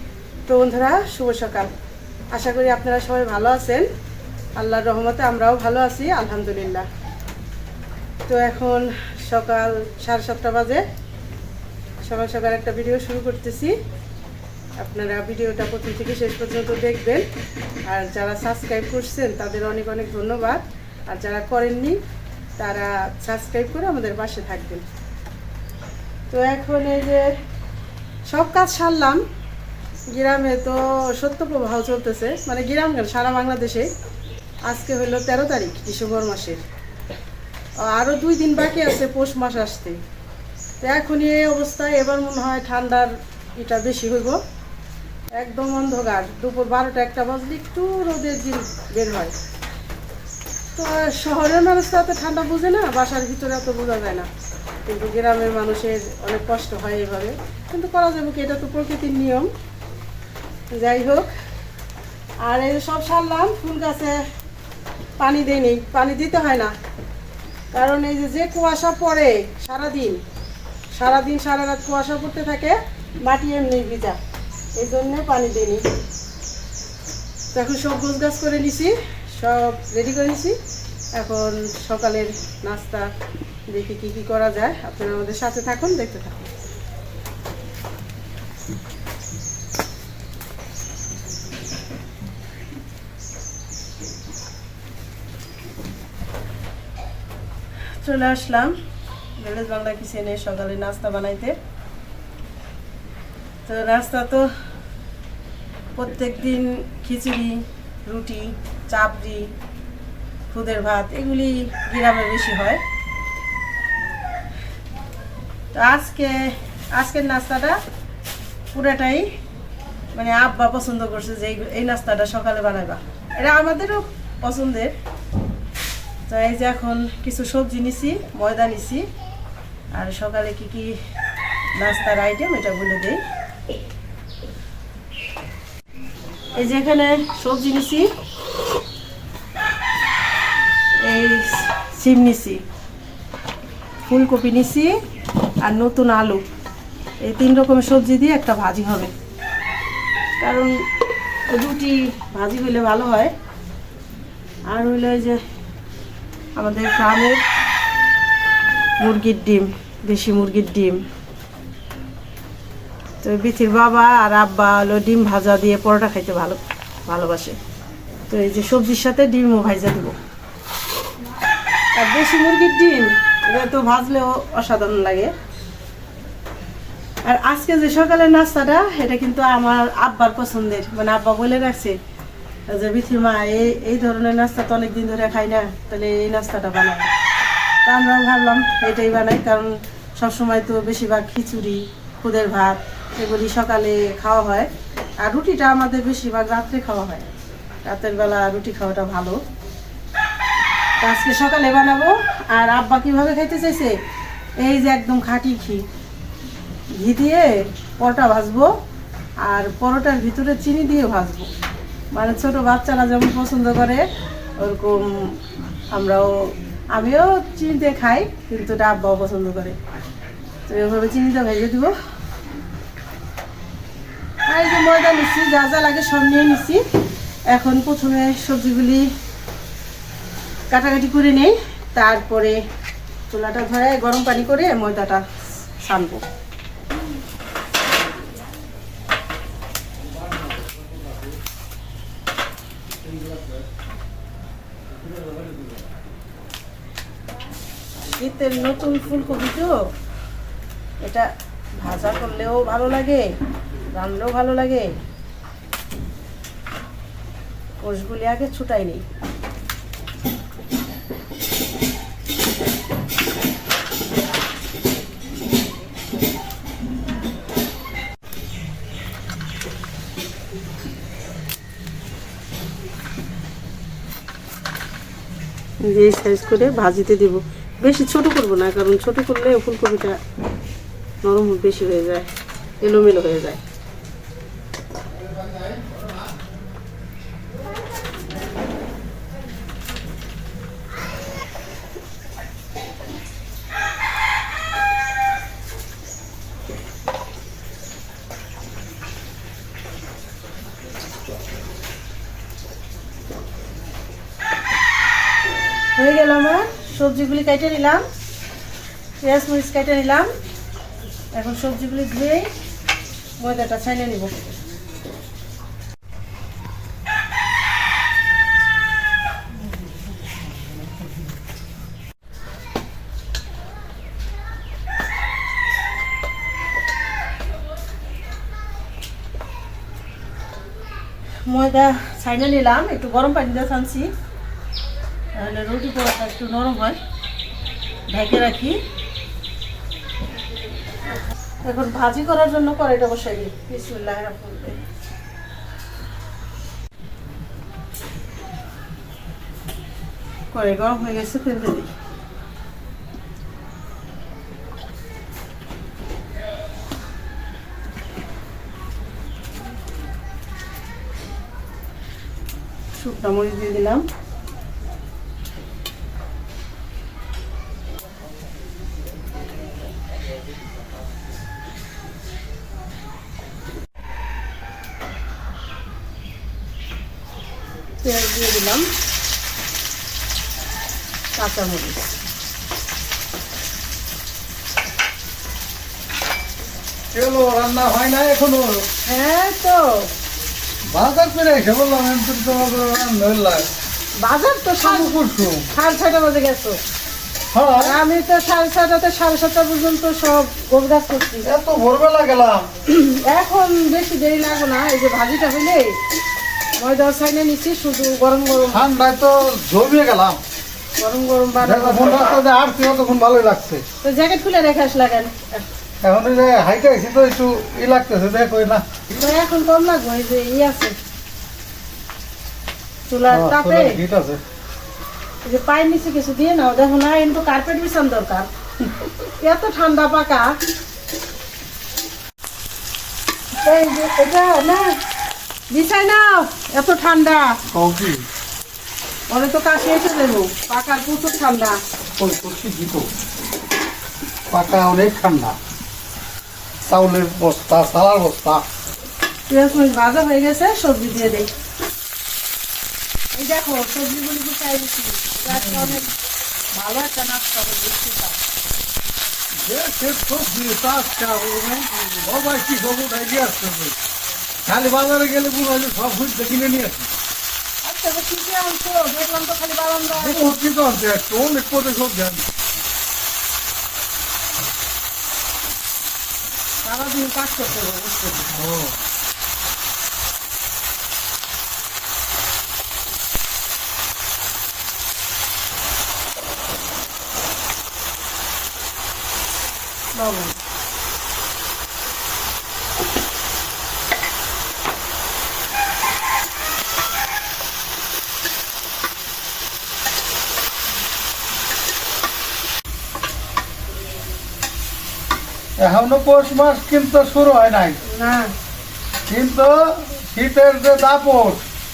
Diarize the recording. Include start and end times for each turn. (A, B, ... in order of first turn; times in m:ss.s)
0:00.5-0:01.7 A
0:02.3-0:03.9 A
0:04.6-0:06.9 A
0:08.3-0:10.8 A
0:12.0-0:13.8 A
0:14.8-0:17.3 A
0:17.9-0:22.0 A
0:22.6-0:24.8 A
0:26.3-0:27.3 A
0:28.3-0:29.2 A
0:30.1-0:33.9 A
0:34.6-0:36.6 A
0:37.8-0:40.0 A
0:40.8-0:44.4 A
0:45.4-0:49.3 A
0:50.8-0:54.3 A
0:54.8-0:59.5 A
1:00.7-1:01.3 A
1:02.4-1:04.2 A
1:05.2-1:06.7 A
1:07.7-1:10.2 A
1:10.9-1:14.2 A
1:14.8-1:15.8 A
1:17.5-1:20.6 A
1:21.2-1:23.1 A
1:23.7-1:26.5 A
1:38.0-1:38.7 A
1:39.4-1:41.5 A
1:43.6-1:44.5 A
1:46.0-1:49.5 A
1:50.5-1:52.8 A
1:55.7-1:57.8 A
1:58.7-1:59.3 A
2:00.1-2:04.9 A
2:06.3-2:09.1 A
2:09.9-2:11.0 A
2:11.8-2:13.2 A
2:16.6-2:18.1 A
2:21.0-2:22.6 A
2:24.1-2:24.9 A
2:25.6-2:26.4 A
2:27.2-2:29.1 A
2:30.4-2:30.7 A
2:31.5-2:33.3 A
2:34.7-2:35.4 A
2:36.6-2:37.4 A
2:39.0-2:41.0 A
2:43.2-2:47.6 A
2:48.3-2:50.2 A
2:52.0-2:55.3 A
2:57.2-3:02.0 A
3:02.7-3:07.1 A
3:07.8-3:14.7 A
3:15.2-3:17.3 A
3:17.8-3:19.4 A
3:21.0-3:24.0 A
3:24.6-3:25.8 A
3:27.0-3:28.7 A
3:29.4-3:31.5 A
3:32.1-3:34.0 A
3:34.6-3:35.4 A
3:35.9-3:39.8 A
3:40.7-3:41.9 A
3:44.5-3:46.8 A
3:47.5-3:49.1 A
3:50.7-3:52.6 A
3:53.3-3:55.2 A
3:55.8-3:56.2 A
4:08.1-4:09.8 A
4:11.0-4:13.3 A
4:14.0-4:15.0 A
4:17.8-4:19.0 A
4:35.8-4:40.2 A
4:41.2-4:42.3 A
4:42.8-4:43.6 A
5:06.0-5:08.0 A
5:09.2-5:10.3 A
5:11.3-5:12.5 A
5:13.4-5:14.5 A
5:31.5-5:34.1 A
5:35.4-5:37.0 A
5:38.1-5:38.8 A
5:41.6-5:44.8 A
5:50.5-5:51.9 A
6:03.0-6:04.0 A
6:18.0-6:18.9 A
6:21.4-6:22.1 A
6:27.1-6:28.8 B
6:29.0-6:30.1 A
6:30.9-6:33.7 B
6:34.2-6:35.1 A
6:34.8-6:35.7 B
6:35.7-6:36.8 A
6:37.5-6:38.0 B
6:37.8-6:41.5 A
6:41.4-6:42.7 B
6:42.9-6:46.0 A
6:46.8-6:48.8 A
6:48.7-6:50.4 B
6:51.0-6:52.3 A
6:51.6-6:53.8 B
6:54.0-6:55.7 A
6:56.0-6:58.8 B
6:59.1-7:01.0 A
7:03.1-7:04.0 A
7:03.3-7:04.4 B
7:05.4-7:08.5 A
7:09.4-7:10.6 A
7:13.6-7:15.0 A
7:15.7-7:17.6 A
7:17.7-7:18.2 B
7:19.3-7:21.8 A
7:22.2-7:23.1 B
7:24.5-7:25.6 B
7:26.8-7:28.6 B
7:29.5-7:31.5 A
7:33.3-7:36.1 A
7:35.5-7:36.1 B
7:36.8-7:38.4 A
7:39.6-7:44.0 B
7:41.9-7:42.3 A
7:44.7-7:47.1 B
7:47.8-7:50.5 A
7:50.2-7:52.5 B
7:56.8-7:58.6 A
7:58.5-7:59.0 B
8:10.1-8:10.6 A
8:25.8-8:28.0 B
8:28.0-8:28.5 A
8:29.3-8:31.6 B